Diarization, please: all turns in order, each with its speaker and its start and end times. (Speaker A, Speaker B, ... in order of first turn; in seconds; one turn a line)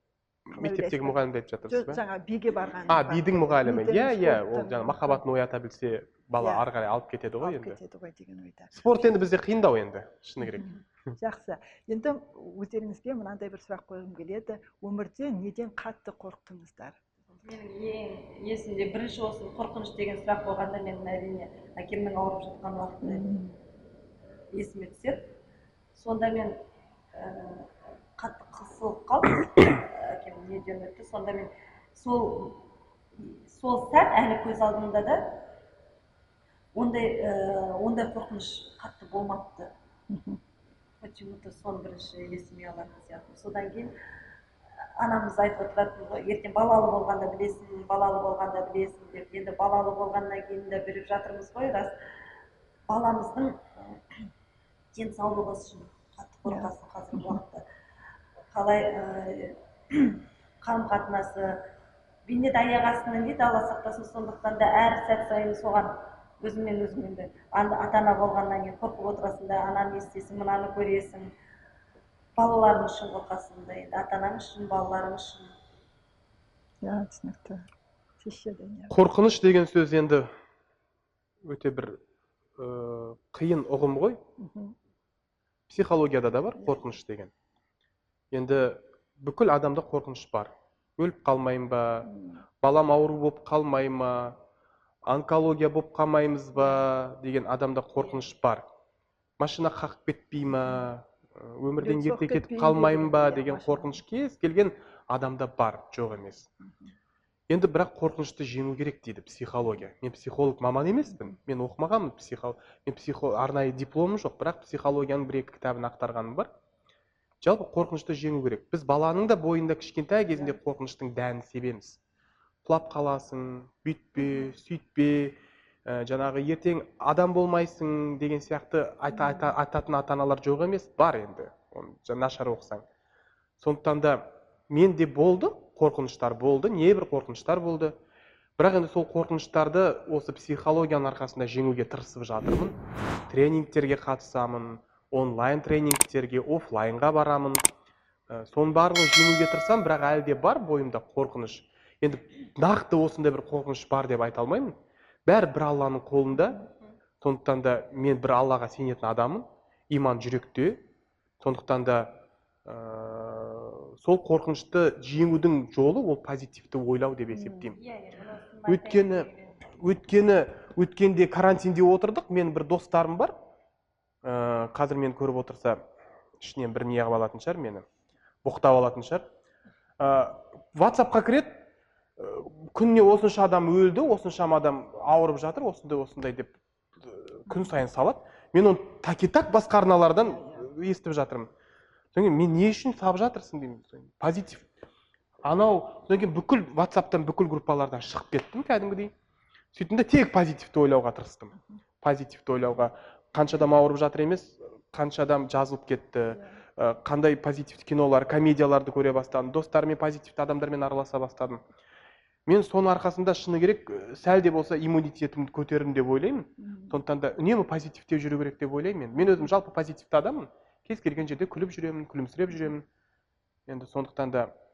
Speaker A: 0.5-2.0
Speaker B: 0.5-5.2
Speaker A: 2.9-7.8
Speaker B: 6.4-6.7
Speaker B: 7.4-9.1
Speaker A: 8.7-11.1
Speaker B: 10.4-17.2
Speaker C: 17.4-23.3
Speaker B: 23.0-23.6
Speaker C: 24.5-25.3
Speaker C: 25.9-26.6
Speaker C: 27.1-32.6
Speaker C: 33.2-35.4
Speaker C: 36.7-39.7
Speaker B: 40.1-40.4
Speaker C: 41.0-43.9
Speaker C: 45.0-51.9
Speaker C: 52.9-54.0
Speaker C: 54.9-57.6
Speaker B: 56.5-57.4
Speaker C: 58.5-61.6
Speaker C: 62.3-71.3
Speaker C: 72.4-75.5
Speaker B: 76.8-77.7
Speaker B: 78.2-78.9
Speaker A: 78.9-80.3
Speaker A: 81.4-82.0
Speaker A: 82.6-84.2
Speaker B: 84.4-84.7
Speaker A: 85.7-87.3
Speaker B: 86.6-86.9
Speaker A: 88.3-92.1
Speaker B: 92.0-92.4
Speaker A: 92.6-94.4
Speaker A: 95.1-98.6
Speaker B: 96.6-96.8
Speaker A: 99.4-106.5
Speaker B: 101.8-104.0
Speaker A: 107.5-116.5
Speaker A: 117.4-122.0
Speaker A: 122.6-132.8
Speaker B: 129.1-129.5
Speaker A: 133.6-137.9
Speaker A: 138.6-142.8
Speaker A: 143.3-147.6
Speaker A: 148.3-154.7
Speaker A: 155.2-156.6
Speaker A: 157.2-160.8
Speaker A: 161.4-162.1
Speaker A: 162.6-167.8
Speaker B: 167.3-167.8
Speaker C: 167.8-169.6
Speaker A: 168.7-173.3
Speaker A: 174.2-175.8
Speaker A: 176.4-177.8
Speaker A: 178.4-179.2
Speaker A: 180.0-181.6
Speaker A: 182.2-191.5
Speaker B: 190.2-190.6
Speaker A: 192.1-194.7
Speaker A: 195.4-199.1
Speaker A: 199.7-211.6
Speaker B: 206.3-206.6
Speaker A: 212.5-222.8
Speaker B: 216.6-217.0
Speaker A: 223.7-224.5